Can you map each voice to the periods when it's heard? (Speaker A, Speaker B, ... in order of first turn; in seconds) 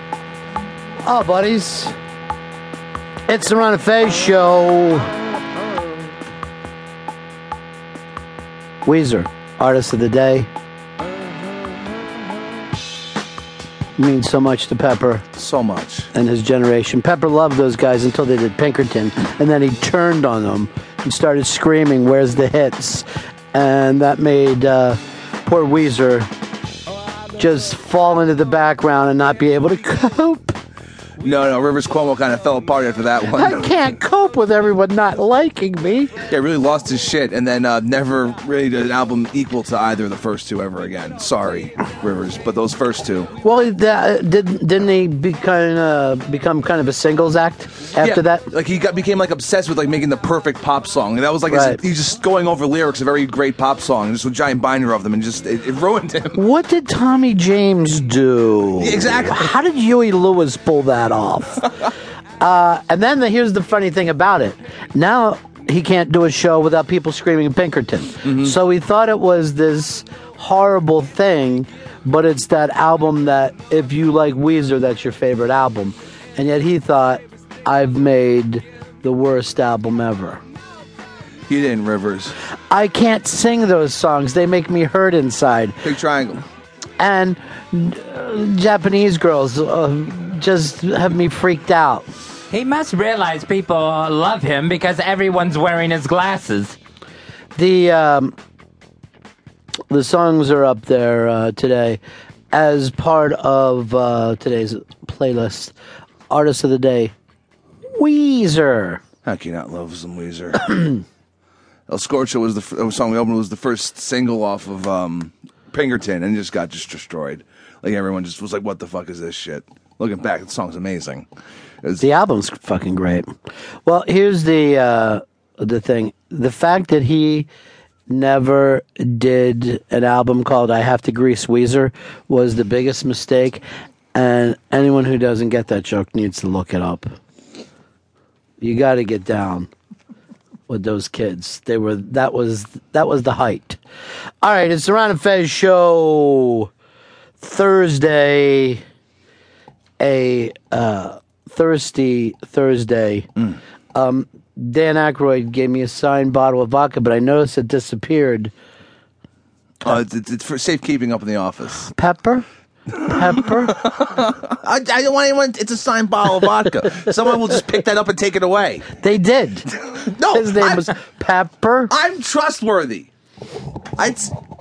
Speaker A: 1.0-1.9, 3.3-5.1, 8.8-10.5, 13.9-15.2, 16.1-26.3, 27.4-30.6, 33.3-36.1, 43.4-48.5, 51.5-51.8, 56.3-61.9, 62.4-80.4, 82.7-85.8, 87.0-92.1, 97.5-98.3, 99.9-102.0, 102.5-105.8, 106.3-107.1, 107.9-109.0, 122.0-123.2, 123.8-127.5, 128.1-133.6, 134.1-137.1, 138.6-139.7, 140.7-143.8, 144.4-146.7, 147.4-148.8, 150.0-153.3, 153.9-158.5, 161.9-163.8, 169.0-171.9
Speaker B: 15.3-16.1, 31.2-33.7, 36.3-43.3, 48.0-56.4, 58.8-59.5, 68.2-68.5, 81.5-82.3, 85.8-86.4, 109.2-111.0, 111.9-121.3, 159.8-161.9, 163.7-168.9, 169.8-170.9, 171.9-173.1, 174.0-174.3
Speaker C: 92.5-96.8